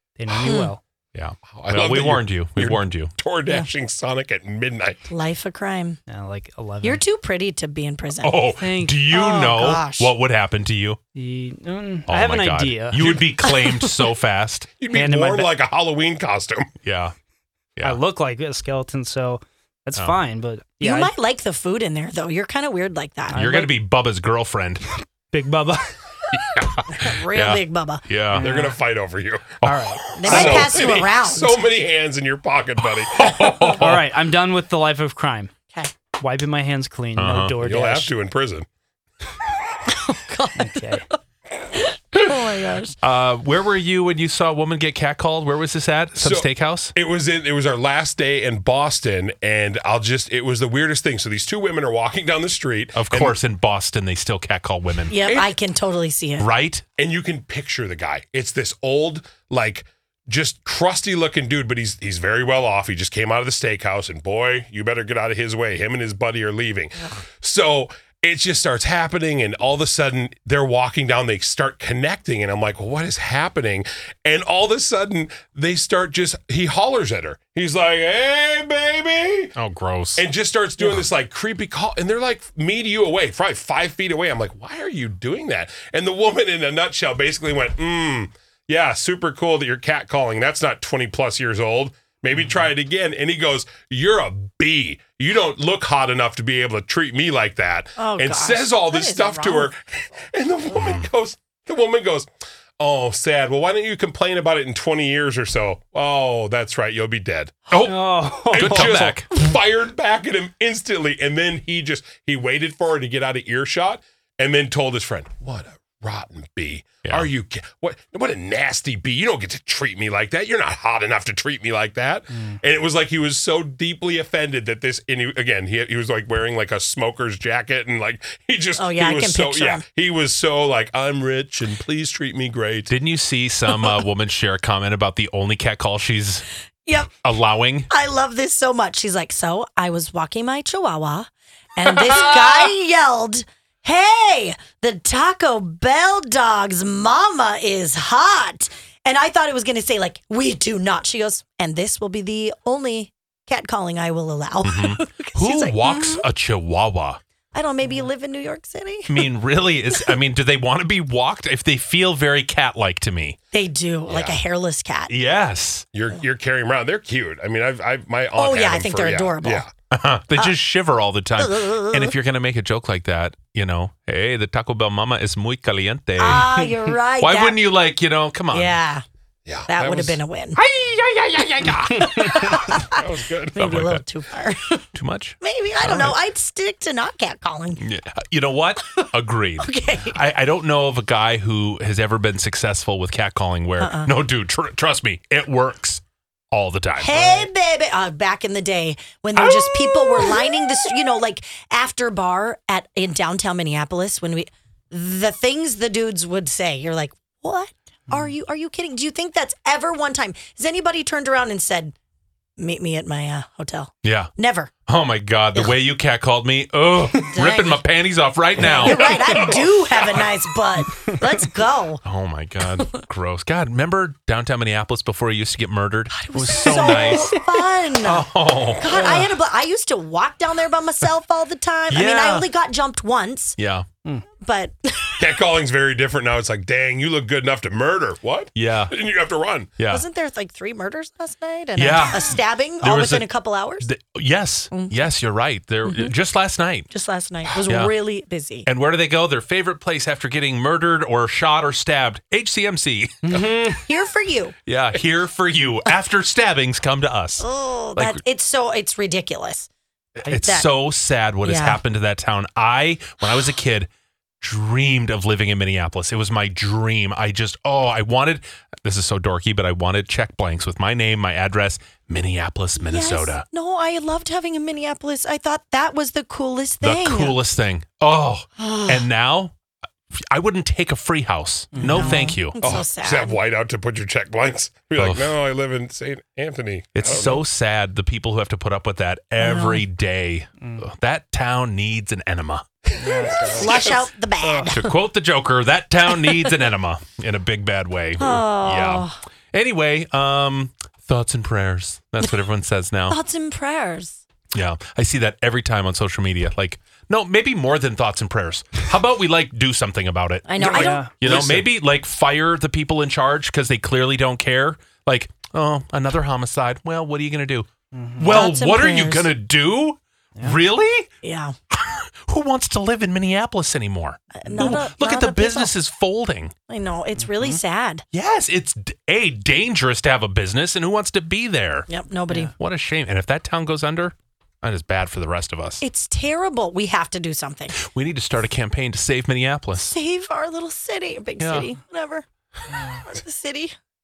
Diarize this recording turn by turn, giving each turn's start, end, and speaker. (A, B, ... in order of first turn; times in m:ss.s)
0:00.2-0:00.8 A
0:00.4-0:00.7 B
0:01.1-0:03.1 C
0:01.5-0:05.1 D
0:05.1-0:06.0 B
0:06.1-0:07.0 A
0:06.8-0:08.4 B
0:08.2-0:11.0 C
0:08.6-0:09.1 A
0:09.1-0:10.1 B
0:11.1-0:13.4 A
0:12.1-0:14.8 C
0:12.9-0:13.3 D
0:14.8-0:16.7 D
0:14.9-0:15.5 A
0:16.8-0:17.1 C
0:17.8-0:21.1 A
0:20.8-0:23.7 B
0:23.3-0:23.7 A
0:23.3-0:24.8 C
0:24.9-0:25.9 A
0:26.3-0:28.5 C
0:26.9-0:28.0 B
0:28.3-0:28.8 A
0:28.3-0:29.6 D
0:29.6-0:30.8 C
0:29.6-0:30.6 A
0:30.2-0:31.6 B
0:30.2-0:33.8 D
0:33.2-0:34.0 C
0:33.8-0:35.5 A
0:36.2-0:38.1 A
0:37.2-0:37.5 C
0:37.6-0:38.6 D
0:39.9-0:40.7 B
0:40.6-0:41.0 A
0:41.7-0:43.0 B
0:43.0-0:46.9 C
0:46.2-0:53.4 D
0:52.9-0:55.1 C
0:55.1-0:56.5 B
0:55.2-0:55.5 D
0:56.4-0:56.8 C
0:57.0-1:19.5 D
1:19.6-1:20.2 C
1:20.2-1:42.3 D
1:38.0-1:39.7 B
1:42.8-1:47.7 D
1:47.7-1:48.0 C
1:47.8-1:48.9 A
1:48.4-2:12.9 D
1:48.5-1:49.3 C
1:57.0-1:57.3 C
2:08.8-2:09.8 B
2:12.9-2:16.5 C
2:16.8-2:17.1 B
2:17.2-2:17.9 C
2:17.9-2:36.2 B
2:34.6-2:37.2 C
2:37.5-2:39.3 B
2:39.1-2:43.4 C
2:43.5-2:45.1 B
2:44.1-2:44.4 D
2:45.1-2:45.8 C
2:45.9-2:49.7 D
2:48.4-2:49.6 B
2:49.9-2:58.8 C
2:51.4-2:52.2 B
2:56.2-2:57.6 B
2:58.5-2:59.0 B
2:59.4-3:00.2 D
2:59.7-3:00.6 B
3:00.6-3:02.0 C
3:01.7-3:03.6 D
3:02.0-3:03.0 B
3:03.5-3:04.9 B
3:03.6-3:04.0 C
3:04.9-3:06.1 C
3:05.4-3:07.8 B
3:07.8-3:17.5 C
3:09.0-3:10.2 B
3:13.8-3:14.1 B
3:17.0-3:31.9 B
3:19.4-3:20.3 C
3:32.6-3:34.7 B
3:34.0-3:34.3 C
3:34.9-3:39.4 C
3:37.3-3:37.8 B
3:38.6-3:42.0 B
3:38.8-3:39.7 D
3:42.0-3:47.3 C
3:46.1-3:48.2 B
3:48.0-3:49.3 C
3:48.8-3:53.6 B
3:51.9-3:52.5 C
3:53.6-3:53.9 C
3:54.4-3:55.3 B
3:55.2-3:59.7 D
3:58.5-3:58.9 C
3:59.8-4:00.0 C
3:59.9-4:03.9 B
4:01.8-4:06.9 C
4:05.8-4:06.1 B
4:06.9-4:08.7 B
4:07.7-4:07.9 C
4:08.6-4:13.5 C
4:13.2-4:13.8 A
4:13.7-4:14.6 B
4:14.6-4:18.2 C
4:17.4-4:19.7 B
4:20.2-4:23.9 C
4:20.4-4:20.7 B
4:21.4-4:21.8 B
4:24.4-4:33.4 C
4:32.8-4:37.4 B
4:36.8-4:39.5 C
4:38.6-4:39.0 B
4:40.3-4:42.6 C
4:41.7-4:42.3 A
4:41.9-4:43.4 B
4:42.6-4:47.4 D
4:45.0-4:45.3 C
4:46.9-4:52.6 C
4:49.4-4:49.8 B
4:53.0-4:53.7 A
4:53.0-4:53.9 D
4:53.5-4:54.8 B
4:54.4-4:54.8 A
4:54.7-5:03.2 C
4:58.2-4:59.2 B
5:03.1-5:04.2 B
5:04.5-5:17.7 C
5:10.4-5:11.1 B
5:10.6-5:11.6 D
5:10.8-5:11.2 A
5:17.9-5:18.4 A
5:18.2-5:21.1 C
5:18.3-5:19.3 B
5:21.2-5:21.5 B
5:21.7-5:26.5 C
5:24.3-5:25.7 B
5:24.4-5:24.8 A
5:26.7-5:28.0 B
5:27.2-5:27.6 A
5:28.1-5:31.9 C
5:31.9-5:32.5 B
5:32.6-5:35.8 C
5:35.8-5:37.8 B
5:37.8-5:39.9 C
5:39.8-5:42.2 B
5:41.4-5:41.7 C
5:43.0-5:43.7 B